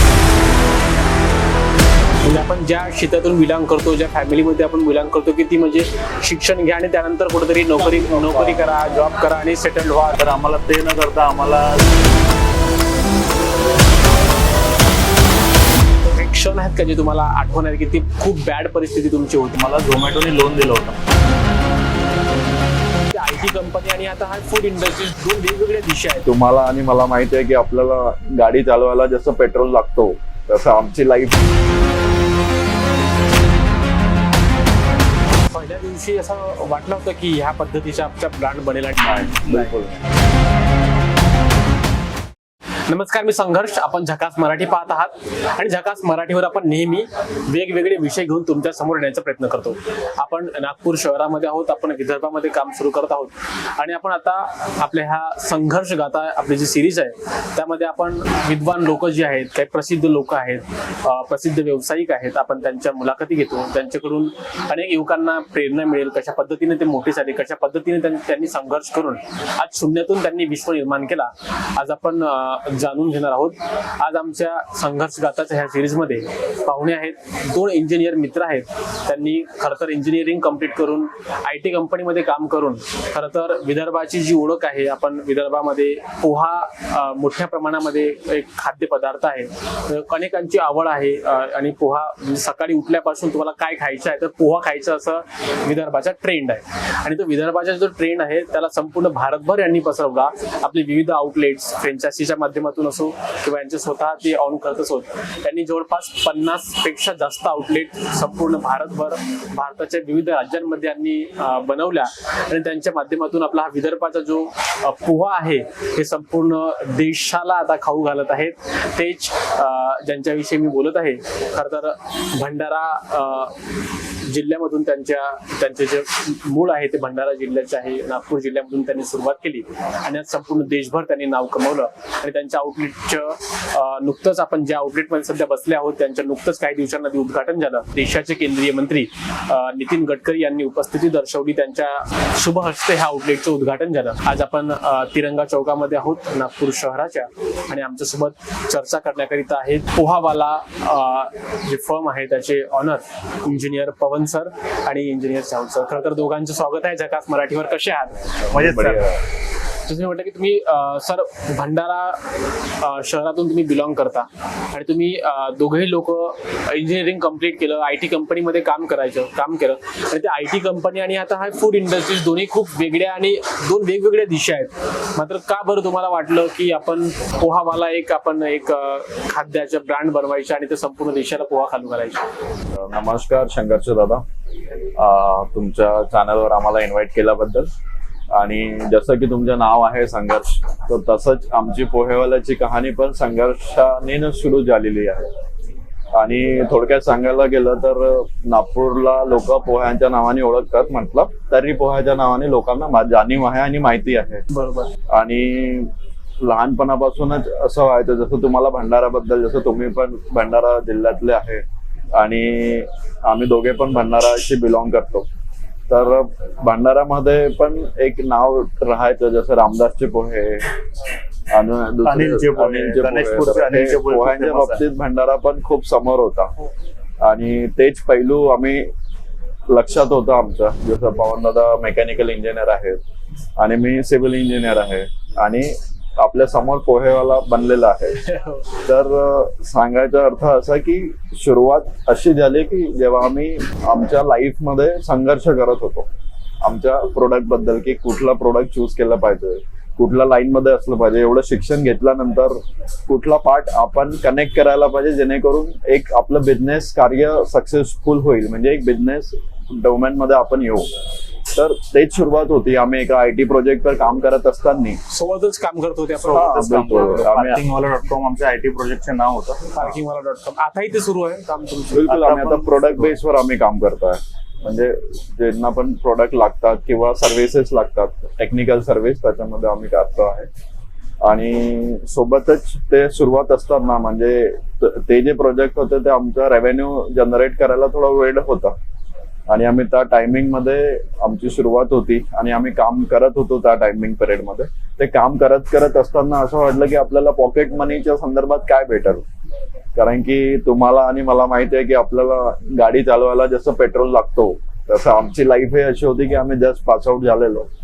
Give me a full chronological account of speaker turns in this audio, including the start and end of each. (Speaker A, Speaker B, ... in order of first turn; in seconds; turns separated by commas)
Speaker A: 2.2-10.2, Speaker B: 10.2-11.9, Speaker A: 16.1-19.6, Speaker B: 19.6-21.0, Speaker A: 23.1-26.3, Speaker C: 26.2-31.4, Speaker A: 35.5-39.6, Speaker B: 39.1-39.7, Speaker C: 39.4-40.0, Speaker A: 42.9-123.6, Speaker A: 124.2-158.3, Speaker C: 158.4-159.2, Speaker B: 158.5-159.2, Speaker A: 159.8-162.2, Speaker A: 162.8-182.3, Speaker C: 182.7-184.2, Speaker C: 185.0-187.7, Speaker C: 188.3-195.3, Speaker C: 196.1-204.4, Speaker A: 204.5-204.9, Speaker C: 205.1-211.6, Speaker C: 212.2-215.3, Speaker C: 215.9-220.8, Speaker C: 221.5-226.5, Speaker B: 222.0-224.8, Speaker C: 227.2-228.9, Speaker C: 229.7-233.0, Speaker C: 233.6-246.1, Speaker A: 238.2-238.7, Speaker C: 246.6-260.9, Speaker C: 261.5-265.0, Speaker A: 265.1-267.0, Speaker B: 266.2-269.9, Speaker C: 266.2-267.6, Speaker A: 269.7-272.1, Speaker C: 271.9-280.5, Speaker B: 272.1-273.1, Speaker C: 281.2-288.8, Speaker C: 289.5-299.2, Speaker C: 299.9-307.7